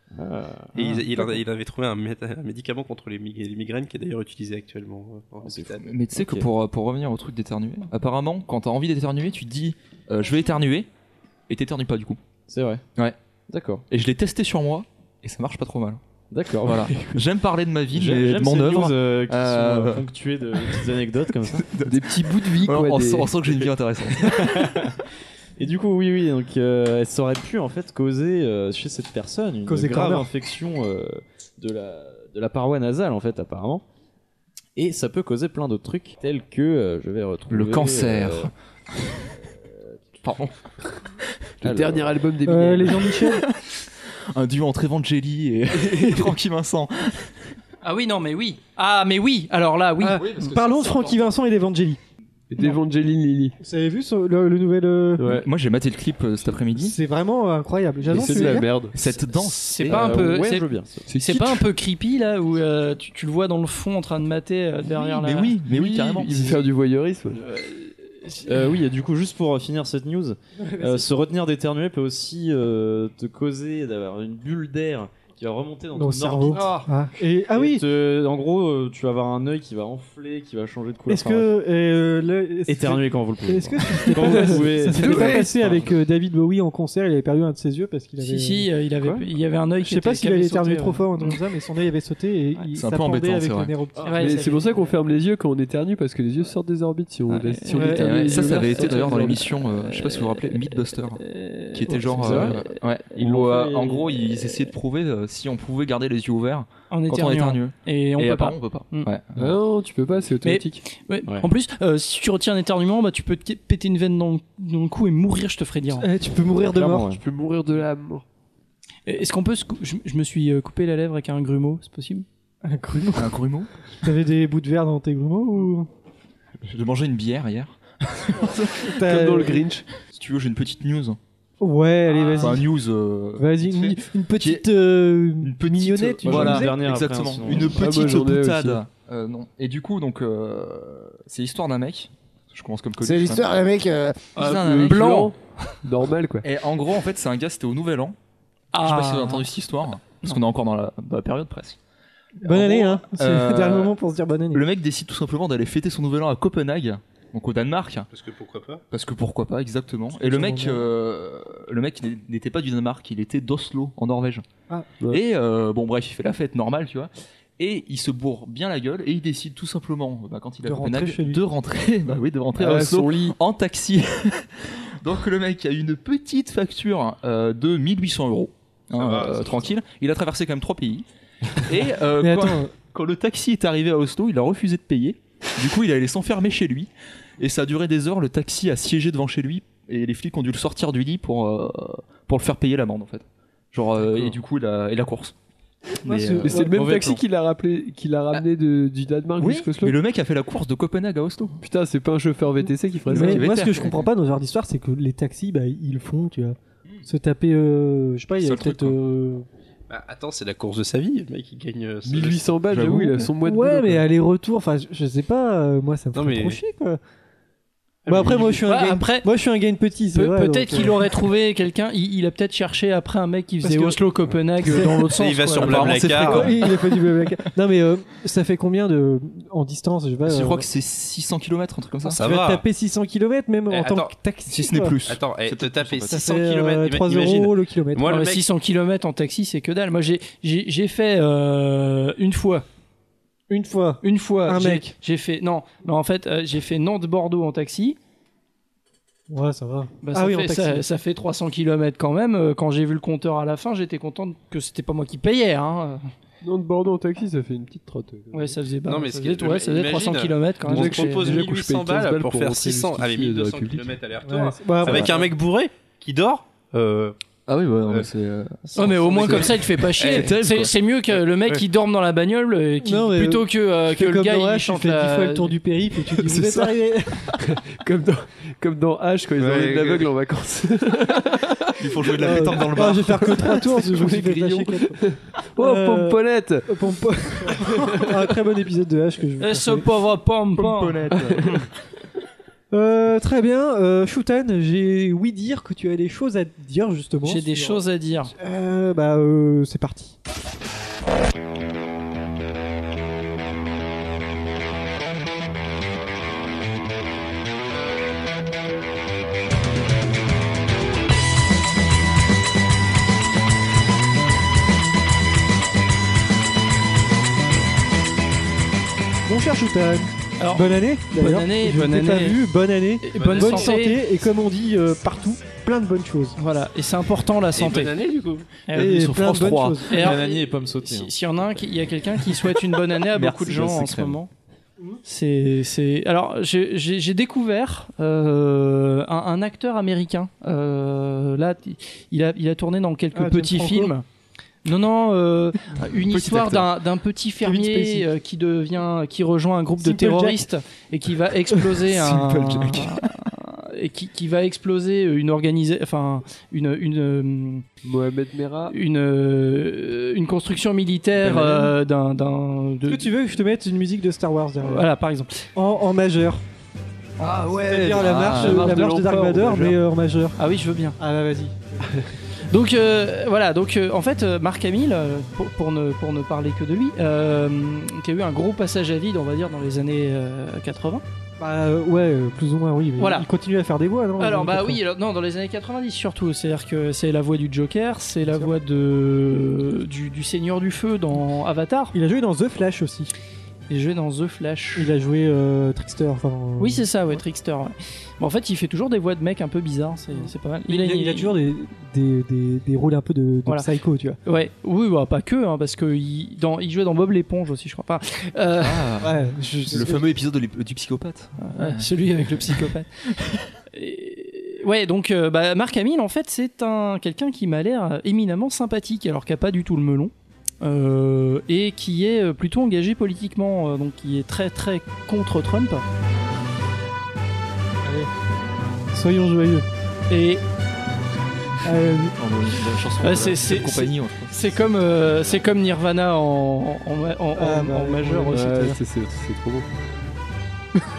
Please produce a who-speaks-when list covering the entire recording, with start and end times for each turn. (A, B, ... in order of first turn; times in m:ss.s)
0:00.1-0:01.0 A
0:00.7-0:05.8 B
0:05.4-0:06.5 A
0:05.8-0:10.9 C
0:11.5-0:12.2 C
0:12.5-0:12.8 A
0:13.5-0:13.8 A
0:13.9-0:16.0 C
0:16.3-0:17.2 A
0:16.6-0:20.0 C
0:17.9-0:21.7 A
0:20.6-0:24.8 C
0:21.8-0:23.4 D
0:24.2-0:25.0 A
0:25.6-0:33.8 A
0:29.6-0:30.3 E
0:34.8-0:38.5 A
0:37.5-0:38.5 C
0:39.6-0:39.9 A
0:40.2-0:41.3 C
0:41.6-0:43.2 D
0:41.6-0:42.1 A
0:42.4-0:43.4 E
0:43.1-0:47.5 C
0:45.7-0:46.3 D
0:47.8-0:50.5 F
0:50.0-0:52.0 E
0:50.2-0:51.2 C
0:52.5-0:53.6 D
0:53.6-0:55.3 E
0:55.2-0:55.5 D
0:55.2-0:57.0 C
0:56.8-0:58.7 E
0:58.1-0:59.0 D
0:58.1-1:00.3 C
0:59.0-1:00.7 F
0:59.8-1:01.1 A
1:01.1-1:01.4 D
1:01.2-1:05.6 F
1:04.8-1:06.6 C
1:05.7-1:07.5 D
1:07.4-1:08.5 F
1:08.4-1:16.8 A
1:10.6-1:11.0 E
1:16.0-1:17.8 E
1:16.5-1:16.9 F
1:17.5-1:21.5 A
1:21.1-1:29.3 E
1:22.7-1:25.9 A
1:24.1-1:25.5 D
1:28.2-1:31.4 F
1:29.8-1:34.5 E
1:32.7-1:33.7 C
1:34.0-1:34.9 A
1:34.0-1:34.5 F
1:34.2-1:39.5 D
1:37.3-1:49.5 C
1:37.6-1:42.7 F
1:37.7-1:38.1 E
1:41.9-1:44.6 A
1:46.9-1:49.1 F
1:49.4-1:50.8 D
1:50.4-1:56.1 F
1:56.0-1:57.1 E
1:56.7-1:57.2 A
1:57.1-1:58.2 D
1:59.0-2:02.2 F
2:02.6-2:03.4 E
2:03.1-2:03.7 C
2:04.0-2:05.9 E
2:06.6-2:08.9 C
2:08.8-2:09.7 E
2:09.0-2:09.8 D
2:10.0-2:11.2 C
2:11.6-2:12.7 E
2:12.4-2:14.7 C
2:13.4-2:16.8 E
2:15.4-2:23.6 C
2:16.2-2:18.0 A
2:17.7-2:18.8 D
2:23.0-2:24.2 E
2:24.3-2:25.3 C
2:24.4-2:25.7 F
2:24.4-2:25.3 D
2:25.8-2:26.4 D
2:26.4-2:28.2 C
2:28.7-2:29.5 F
2:28.8-2:31.8 C
2:32.4-2:34.6 E
2:32.4-2:33.9 C
2:34.5-2:38.1 C
2:38.1-2:38.8 B
2:38.9-2:44.4 C
2:40.1-2:40.8 E
2:45.1-3:15.3 C
2:50.6-2:51.4 E
2:52.6-2:53.4 D
2:58.9-2:59.7 B
3:02.2-3:02.7 E
3:16.0-3:16.7 E
3:16.0-3:17.2 C
3:16.4-3:20.0 D
3:19.4-3:21.6 C
3:21.6-3:23.5 D
3:23.0-3:24.1 C
3:23.1-3:29.4 E
3:28.4-3:29.0 C
3:29.9-3:32.5 B
3:32.0-3:34.0 D
3:32.7-3:33.2 C
3:33.4-3:37.0 E
3:36.1-3:36.6 B
3:38.0-3:38.6 B
3:38.1-3:41.0 E
3:38.6-3:39.3 F
3:40.1-3:46.1 F
3:43.6-3:44.0 E
3:44.6-3:45.1 E
3:45.2-3:46.5 B
3:45.6-3:47.0 C
3:46.2-3:50.6 E
3:50.2-3:52.2 C
3:52.0-3:55.0 E
3:52.2-3:52.6 B
3:53.7-3:54.1 B
3:54.5-3:56.2 C
3:55.0-3:58.4 B
3:56.1-3:58.1 E
3:58.0-4:02.6 F
4:03.5-4:04.9 E
4:04.0-4:08.0 F
4:09.3-4:10.8 E
4:10.0-4:16.1 F
4:16.4-4:18.6 D
4:18.3-4:21.4 F
4:18.9-4:27.2 B
4:20.7-4:23.9 D
4:24.2-4:25.1 E
4:24.8-4:25.2 C
4:27.5-4:30.7 C
4:28.7-4:35.6 F
4:29.2-4:30.3 B
4:32.8-4:37.4 E
4:36.2-4:36.7 C
4:37.4-4:43.0 D
4:39.4-4:40.1 B
4:41.8-4:43.6 C
4:42.2-4:45.0 E
4:43.5-4:46.7 D
4:45.6-4:49.9 E
4:47.6-4:48.2 D
4:49.4-4:51.6 F
4:50.6-4:51.6 C
4:51.1-4:51.6 D
4:52.7-5:00.2 E
4:57.2-4:58.3 F
5:19.2-5:26.4 E
5:20.4-5:22.4 F
5:23.0-5:24.0 F
5:23.1-5:23.8 B
5:26.4-5:28.0 F
5:27.5-5:28.5 B
5:28.7-5:29.0 F
5:28.7-5:30.0 C
5:28.7-5:30.2 E
5:29.9-5:34.3 F
5:29.9-5:31.2 A
5:33.1-5:34.2 C
5:35.0-5:44.0 F
5:43.1-5:43.9 E
5:44.6-5:57.6 F
5:45.8-5:46.7 C
5:47.4-5:48.1 E
5:49.8-5:50.5 E
5:51.7-5:53.2 C
5:57.8-5:58.7 D
5:58.7-6:03.1 F
6:02.8-6:04.9 E
6:04.6-6:05.4 F
6:05.5-6:06.4 E
6:07.2-6:07.5 F
6:07.2-6:09.8 D
6:07.5-6:10.4 E
6:08.0-6:08.7 C
6:10.4-6:11.0 F
6:11.0-6:11.9 E
6:12.4-6:21.0 F
6:21.4-6:24.8 E
6:23.0-6:23.3 F
6:24.2-6:31.9 F
6:28.2-6:28.5 E
6:31.9-6:33.1 E
6:33.7-6:34.9 F
6:34.7-6:37.2 E
6:36.6-6:41.3 F
6:40.1-6:44.2 E
6:44.2-6:48.9 F
6:48.6-6:52.7 C
6:49.0-6:50.1 E
6:51.4-6:53.0 F
6:53.7-7:05.8 F
7:07.8-7:08.1 E
7:08.9-7:09.7 E
7:10.1-7:10.4 F
7:11.6-7:12.1 E
7:12.2-7:14.5 C
7:13.0-7:18.5 F
7:17.4-7:18.8 E
7:18.3-7:19.7 D